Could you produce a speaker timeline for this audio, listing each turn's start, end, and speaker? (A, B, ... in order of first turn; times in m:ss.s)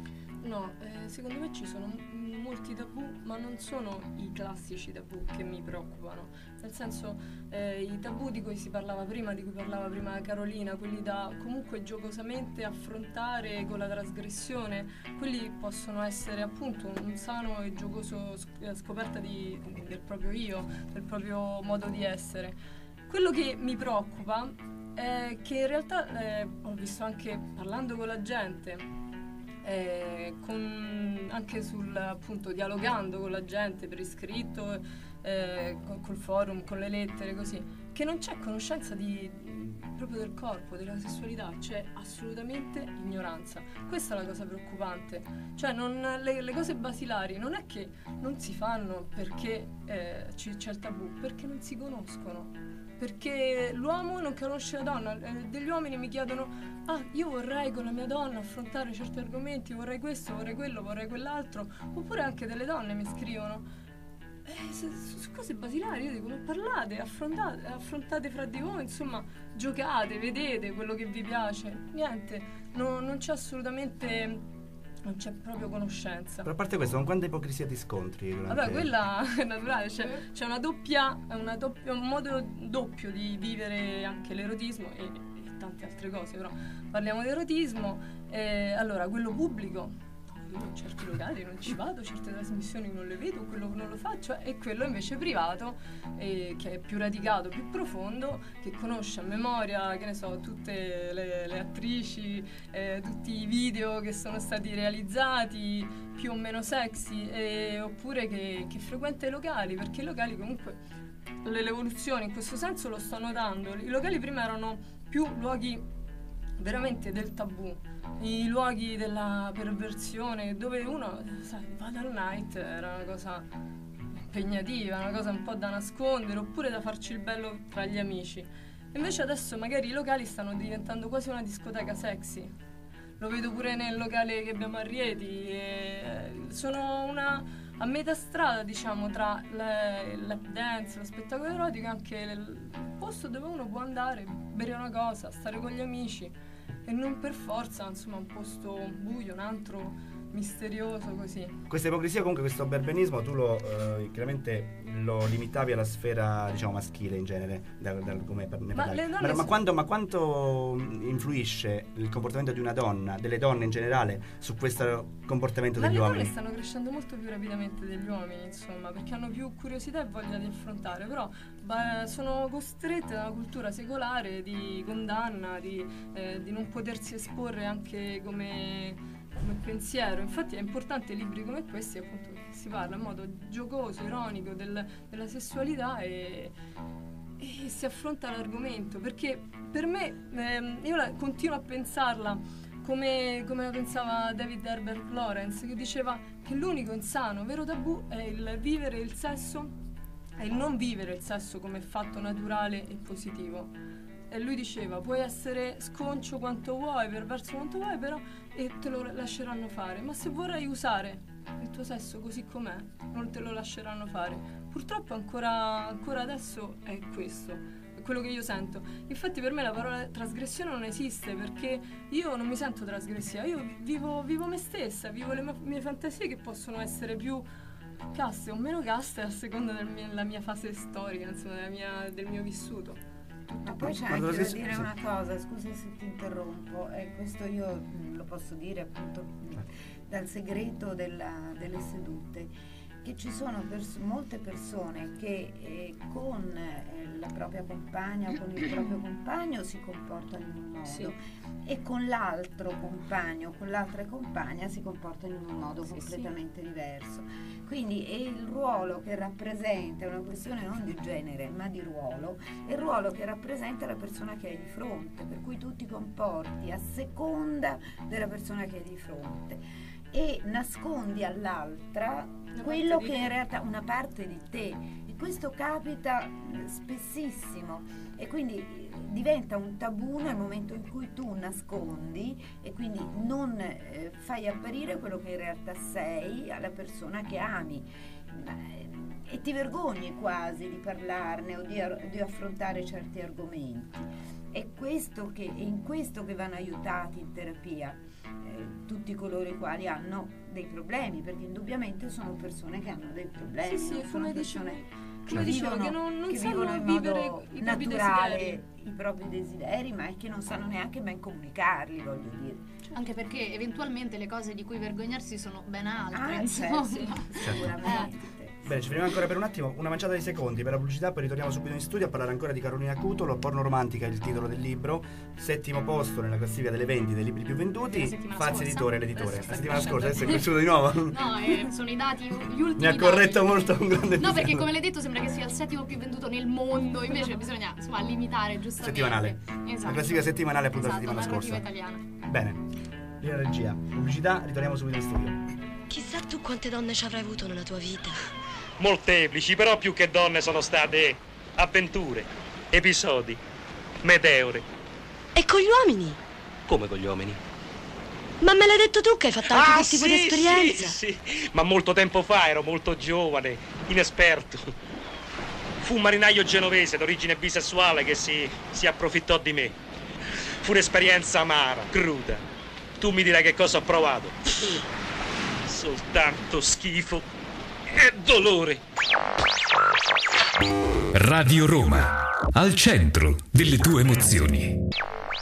0:00.4-0:28.9 A
0:29.6-1:03.6 A
1:04.4-1:14.4 A
1:15.0-1:16.5 A
1:16.4-1:18.9 B
1:18.5-1:50.8 A
1:51.4-1:55.8 A
1:56.6-2:03.4 A
2:04.1-2:12.5 A
2:13.2-2:26.3 A
2:26.8-2:31.6 A
2:31.7-2:46.3 B
2:38.7-2:39.6 A
2:45.8-3:06.5 A
3:07.4-3:19.7 A
3:20.4-3:23.7 A
3:24.3-3:47.5 A
3:48.1-3:53.0 A
3:53.5-3:53.9 A
3:53.6-3:54.9 B
3:53.6-4:02.5 C
4:03.0-5:12.7 C
4:15.9-4:16.3 D
4:32.5-4:33.3 A
5:03.6-5:08.6 A
5:12.9-5:18.1 D
5:16.1-5:18.7 C
5:17.4-5:17.8 B
5:18.6-5:31.7 B
5:27.8-5:30.5 D
5:31.0-5:42.0 D
5:32.8-5:34.7 B
5:38.8-5:41.6 B
5:42.2-5:42.6 B
5:43.2-5:45.4 B
5:45.9-5:48.2 E
5:48.8-5:53.4 F
5:54.0-5:54.7 F
5:55.4-5:56.2 E
5:56.7-5:57.4 F
5:58.4-6:01.0 E
5:59.5-6:04.7 F
6:05.8-6:09.8 F
6:10.6-6:12.4 F
6:13.0-6:14.8 F
6:15.6-6:17.2 F
6:17.9-6:18.8 F
6:21.1-6:24.8 G